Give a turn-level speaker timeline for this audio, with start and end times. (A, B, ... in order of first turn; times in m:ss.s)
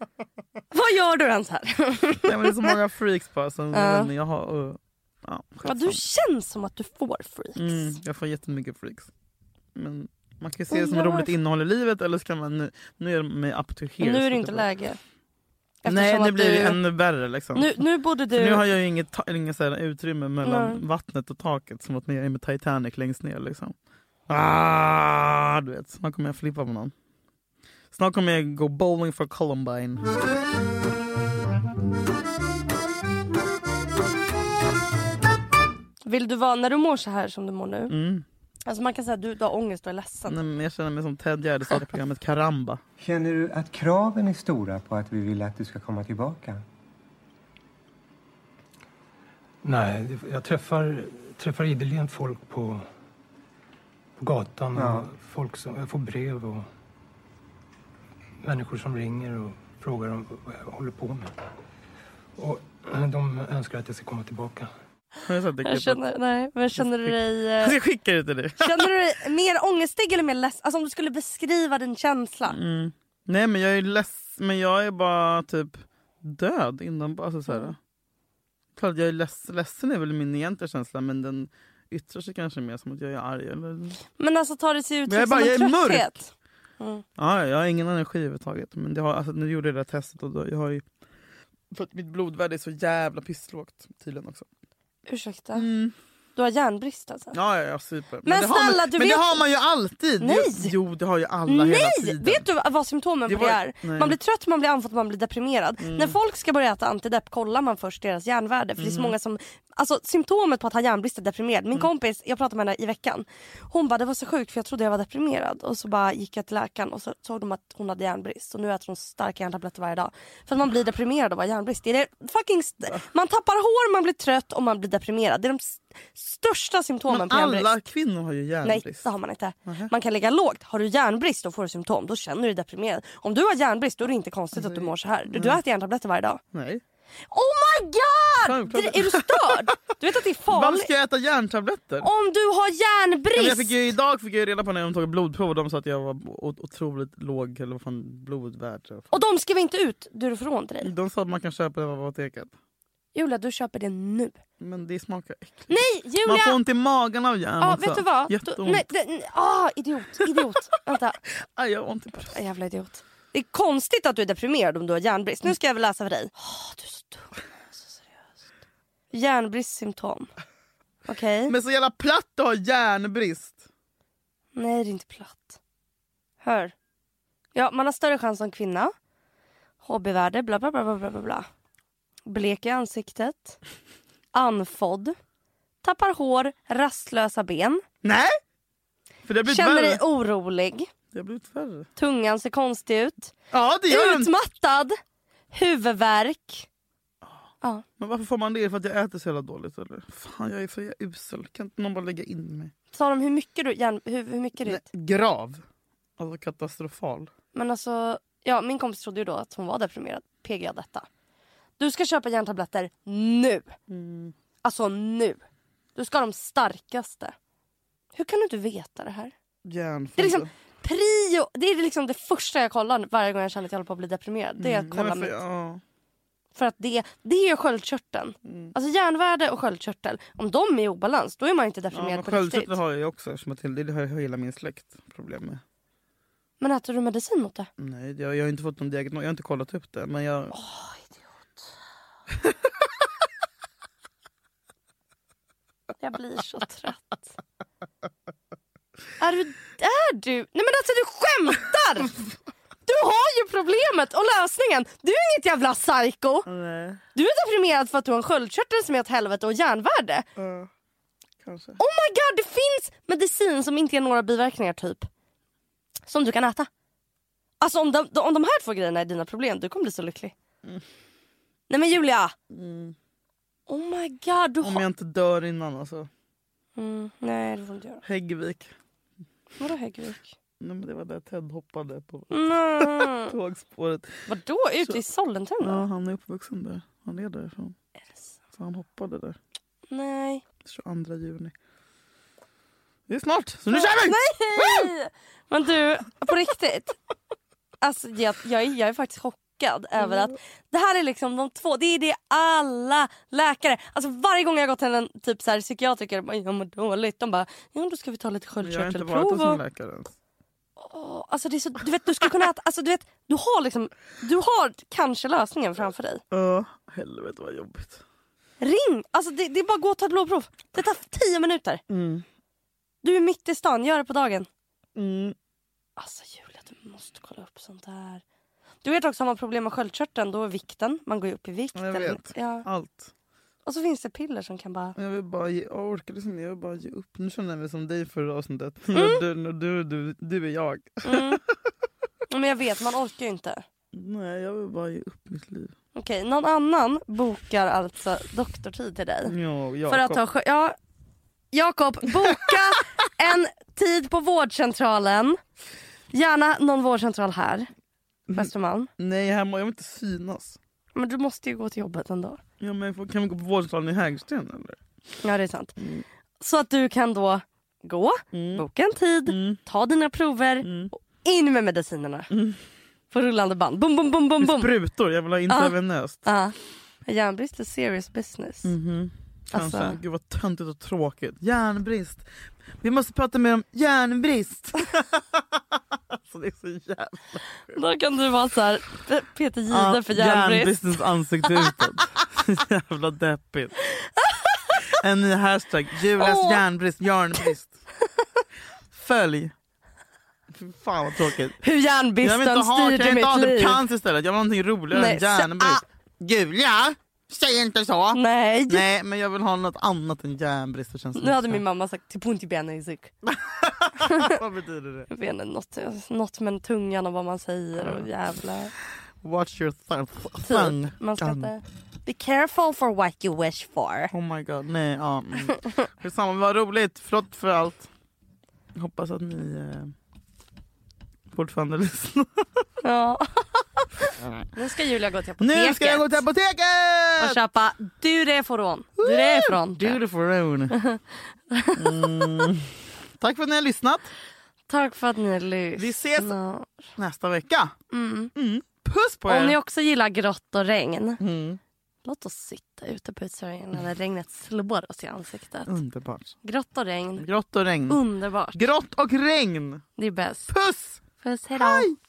0:00.7-0:02.7 A
0:02.2-0:06.0 B
0:03.7-0:04.1 A
0:05.6-0:08.0 A
0:07.6-0:09.1 B
0:09.7-0:14.7 B
0:10.7-0:11.3 A
0:14.0-0:15.0 A
0:15.8-0:16.8 A
0:15.8-0:17.7 B
0:17.5-0:18.6 A
0:18.3-0:23.7 B
0:20.4-0:20.8 A
0:24.3-0:26.9 B
0:27.9-0:30.0 B
0:36.0-0:37.9 A
0:37.9-0:38.2 B
0:38.6-0:40.4 A
0:40.3-0:42.8 B
0:43.0-0:46.6 C
0:49.6-0:52.8 D
0:54.2-0:56.7 D
0:54.8-0:55.0 C
0:58.4-1:01.3 D
1:02.4-1:04.7 D
1:05.2-1:06.0 B
1:05.6-1:07.8 A
1:06.8-1:08.9 B
1:08.6-1:12.6 A
1:12.5-1:17.8 B
1:17.5-1:17.7 A
1:18.8-1:24.0 B
1:24.2-1:27.0 A
1:25.1-1:26.1 B
1:27.2-1:30.8 B
1:31.7-1:34.5 B
1:35.0-1:35.7 A
1:35.5-1:35.9 B
1:36.4-1:37.4 A
1:37.3-1:42.4 B
1:38.2-1:39.4 A
1:40.2-1:40.7 A
1:41.4-2:07.7 A
1:43.3-1:44.2 B
1:45.8-1:46.2 B
1:48.8-1:49.1 B
2:07.1-2:09.1 B
2:08.6-2:16.4 A
2:09.6-2:09.9 B
2:14.5-2:15.6 B
2:16.5-2:16.8 B
2:17.3-2:20.9 A
2:18.4-2:19.6 B
2:20.5-2:22.1 B
2:22.0-2:23.7 A
2:23.3-2:29.1 B
2:29.1-2:30.9 A
2:30.8-2:32.5 B
2:33.1-2:34.4 A
2:34.6-2:38.8 B
2:35.7-2:36.6 A
2:37.6-2:41.2 A
2:41.3-2:42.4 B
2:42.3-2:48.1 A
2:49.1-2:50.3 A
2:51.1-2:51.5 A
2:51.5-2:53.6 B
2:54.5-2:55.6 A
2:56.4-2:56.7 A
2:57.5-2:58.9 A
2:59.8-3:01.5 A
3:02.2-3:03.6 A
3:04.3-3:05.2 A
3:05.8-3:07.8 A
3:08.0-3:08.4 B
3:09.2-3:10.0 B
3:09.4-3:10.9 A
3:11.1-3:11.9 B
3:12.0-3:13.3 A
3:13.5-3:14.3 B
3:13.9-3:15.0 A
3:15.5-3:16.7 A
3:17.2-3:22.7 B
3:22.9-3:24.8 A
3:24.6-3:25.6 B
3:26.2-3:27.3 B
3:27.5-3:31.1 A
3:31.8-3:33.8 A
3:33.9-3:34.3 B
3:34.6-3:35.4 A
3:35.9-3:37.3 A
3:38.1-3:39.3 A
3:39.6-3:40.5 B
3:40.2-3:45.4 A
3:44.6-3:45.8 B
3:46.5-3:52.8 A
3:48.4-3:48.7 B
3:51.9-3:55.6 B
3:56.6-3:57.7 A
3:57.8-4:00.5 B
4:00.5-4:01.5 A
4:06.0-4:07.3 A
4:09.2-4:12.2 A
4:12.8-4:16.5 A
4:16.4-4:17.0 B
4:17.1-4:20.3 A
4:20.4-4:20.7 B
4:21.4-4:21.8 B
4:21.8-4:25.1 A
4:26.1-4:26.7 A
4:27.6-4:30.3 A
4:31.7-4:32.3 A
4:32.5-4:32.9 B
4:33.7-4:34.8 A
4:34.6-4:36.1 B
4:36.8-4:38.0 A
4:38.0-4:38.7 B
4:39.6-4:40.3 A
4:40.6-4:44.3 B
4:42.3-4:43.3 A
4:44.3-4:45.8 A
4:45.6-4:47.7 B
4:48.5-4:49.4 B
4:49.9-4:50.4 A
4:50.6-4:51.5 B
4:53.1-4:54.9 B
4:53.7-4:57.0 A
4:57.8-5:09.6 A
5:08.6-5:10.1 B
5:10.8-5:16.2 A
5:16.3-5:18.0 B
5:18.6-5:21.8 A
5:21.9-5:22.2 B
5:23.0-5:24.5 A
5:25.0-5:25.4 B
5:26.0-5:28.2 A
5:28.8-5:32.7 A
5:31.7-5:33.1 B
5:33.6-5:35.0 A
5:35.0-5:41.5 B
5:38.9-5:39.2 A
5:41.0-5:41.4 A
5:42.3-5:43.6 A
5:43.9-5:45.7 B
5:45.9-5:49.3 A
5:49.2-5:50.2 B
5:49.9-5:50.8 A
5:51.5-5:55.4 A
5:56.1-5:57.7 A
5:58.3-5:58.9 A
5:59.0-6:00.6 B
6:00.9-6:02.4 A
6:02.6-6:04.8 B
6:05.2-6:05.8 A
6:05.8-6:06.0 B
6:06.4-6:12.3 A
6:08.3-6:08.6 B
6:09.3-6:09.6 B
6:10.6-6:10.9 B
6:12.3-6:12.6 B
6:13.1-6:14.7 A
6:14.4-6:16.3 B
6:15.5-6:16.5 A
6:17.0-6:18.7 A
6:18.6-6:22.3 B
6:19.5-6:20.0 A
6:22.8-6:27.8 B
6:27.7-6:30.9 A
6:29.7-6:33.7 B
6:33.9-6:34.9 A
6:34.8-6:37.7 B
6:36.2-6:36.6 A
6:38.9-6:39.5 B
6:40.5-6:41.6 B
6:41.6-6:43.8 A
6:42.2-6:51.6 B
6:44.9-6:45.8 A
6:48.1-6:48.9 A
6:51.2-6:53.1 A
6:53.3-6:55.1 B
6:54.0-6:54.4 A
6:55.1-6:58.7 A
6:57.8-6:58.0 B
6:59.2-7:01.5 B
7:00.4-7:04.1 A
7:04.1-7:07.9 B
7:08.7-7:09.9 B
7:11.3-7:12.6 B
7:12.8-7:13.8 A
7:14.5-7:16.2 A
7:15.4-7:17.4 B
7:17.2-7:20.0 A
7:19.0-7:20.8 B
7:20.7-7:22.5 A
7:21.8-7:24.1 B
7:24.7-7:26.8 A
7:25.8-7:26.4 B
7:27.0-7:27.7 B
7:27.9-7:28.3 A
7:28.3-7:29.6 B
7:29.3-7:31.2 A
7:31.2-7:31.6 B
7:32.0-7:35.7 A
7:35.7-7:36.3 B
7:36.4-7:37.2 A
7:37.2-7:38.0 B
7:37.9-7:38.6 A
7:38.5-7:39.8 B
7:40.0-7:40.5 A
7:40.5-7:41.0 B
7:41.2-7:41.9 A
7:41.5-7:42.0 B